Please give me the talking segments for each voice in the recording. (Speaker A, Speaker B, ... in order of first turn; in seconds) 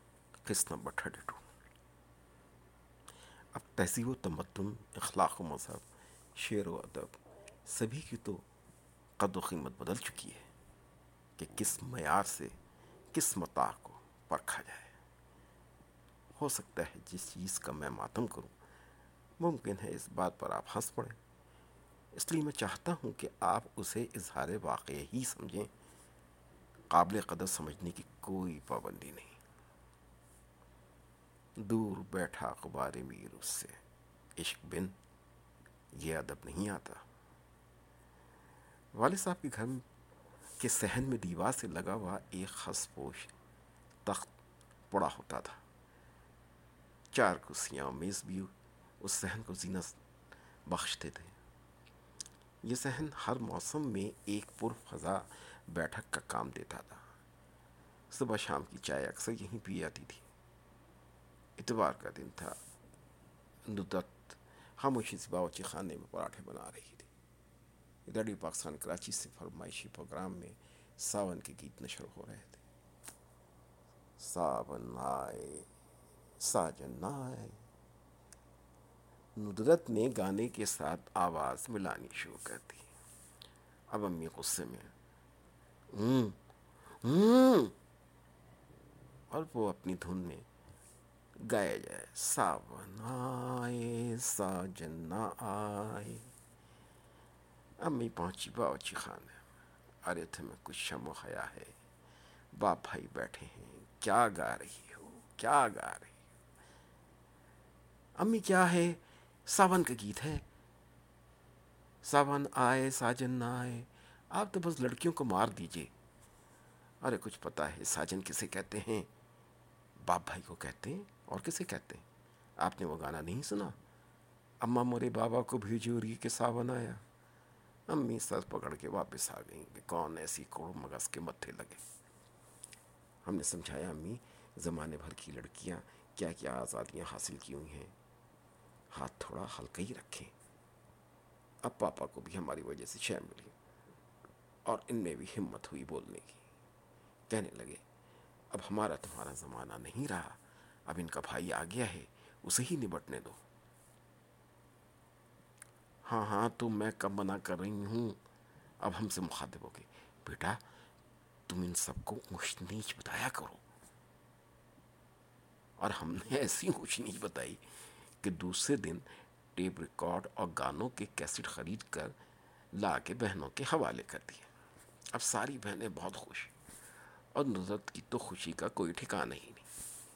Speaker A: 0.4-1.5, 3.5-5.8, 6.3-8.4, 9.2-10.4, 11.4-12.6, 13.1-14.9, 16.4-18.5, 19.4-21.2, 22.1-25.7, 26.9-29.4, 31.6-33.8, 34.4-34.9, 36.0-37.0, 38.9-39.8, 40.6-43.3, 44.0-44.3, 44.9-45.6, 47.1-50.0, 50.6-51.4, 52.6-57.0, 58.1-60.2, 61.6-62.5, 63.7-67.1, 68.0-72.6, 74.2-75.7, 76.4-77.6, 79.3-82.9, 83.9-84.9, 85.9-86.4, 87.0-87.7, 89.3-90.4, 91.4-96.3, 97.8-99.4, 100.0-101.7, 102.5-106.1, 108.2-110.5, 112.0-115.9, 117.0-119.1, 120.0-122.0, 122.6-123.8, 124.6-127.0, 127.9-131.8, 133.2-137.9, 138.9-140.3, 141.6-143.5, 144.7-146.4, 147.3-147.8, 148.5-153.4, 156.1-158.2, 158.8-160.6, 161.5-163.6, 165.8-167.6, 168.2-172.2, 172.7-174.5, 175.1-176.5, 177.3-179.6